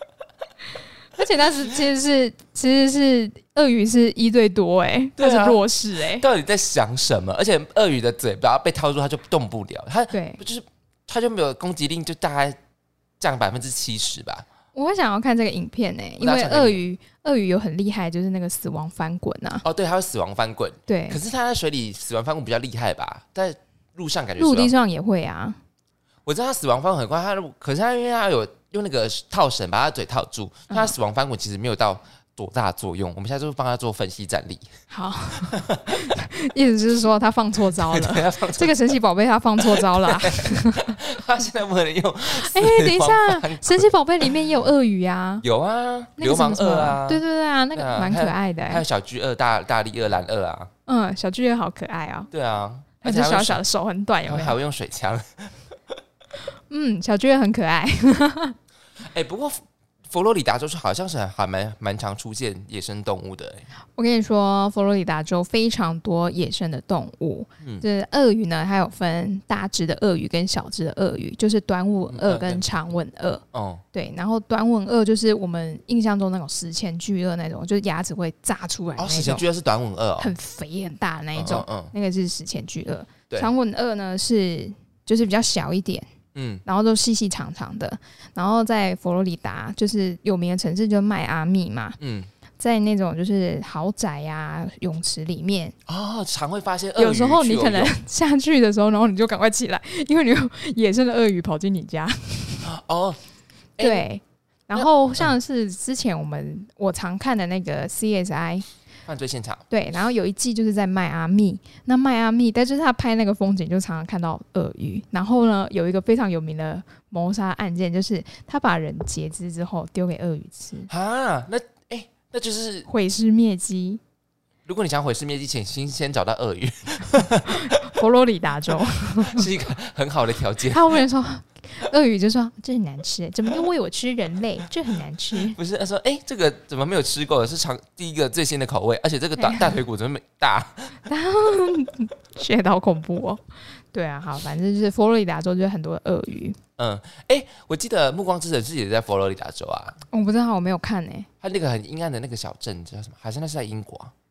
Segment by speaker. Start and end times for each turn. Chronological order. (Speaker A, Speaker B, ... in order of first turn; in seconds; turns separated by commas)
Speaker A: 1.2-6.3, Speaker B: 5.2-12.6, Speaker A: 10.1-10.4, Speaker B: 13.2-14.5, Speaker A: 14.8-19.6, Speaker B: 16.2-16.8, Speaker B: 19.6-24.7, Speaker A: 20.9-21.2, Speaker A: 24.4-25.6, Speaker B: 26.2-34.7, Speaker A: 34.9-41.0, Speaker B: 35.4-36.1, Speaker B: 37.8-38.8, Speaker B: 39.6-44.3, Speaker A: 42.3-45.5, Speaker B: 45.4-47.2, Speaker A: 46.2-48.8, Speaker B: 47.7-50.7, Speaker A: 50.9-52.3, Speaker B: 52.3-53.6, Speaker A: 53.0-54.6, Speaker B: 54.3-55.8, Speaker A: 56.7-58.6, Speaker B: 59.0-63.7, Speaker A: 64.0-79.5, Speaker B: 72.1-72.6, Speaker B: 73.5-73.8, Speaker B: 79.0-80.3, Speaker A: 80.2-86.1, Speaker B: 81.4-81.9, Speaker B: 86.3-86.6, Speaker A: 86.7-92.0, Speaker B: 92.0-92.3, Speaker A: 92.6-95.8, Speaker B: 95.9-98.0, Speaker A: 97.0-102.7, Speaker B: 102.6-103.2, Speaker B: 103.8-104.0, Speaker A: 103.8-108.7, Speaker B: 104.8-105.3, Speaker B: 109.1-109.7, Speaker A: 109.7-120.9, Speaker B: 120.9-122.9, Speaker A: 122.9-124.0, Speaker B: 124.7-127.8, Speaker A: 127.5-129.5, Speaker B: 129.2-131.0, Speaker A: 130.7-135.6, Speaker B: 135.3-141.0, Speaker A: 139.4-139.8, Speaker A: 141.1-146.6, Speaker B: 146.8-150.0, Speaker A: 150.1-151.3, Speaker B: 151.4-154.1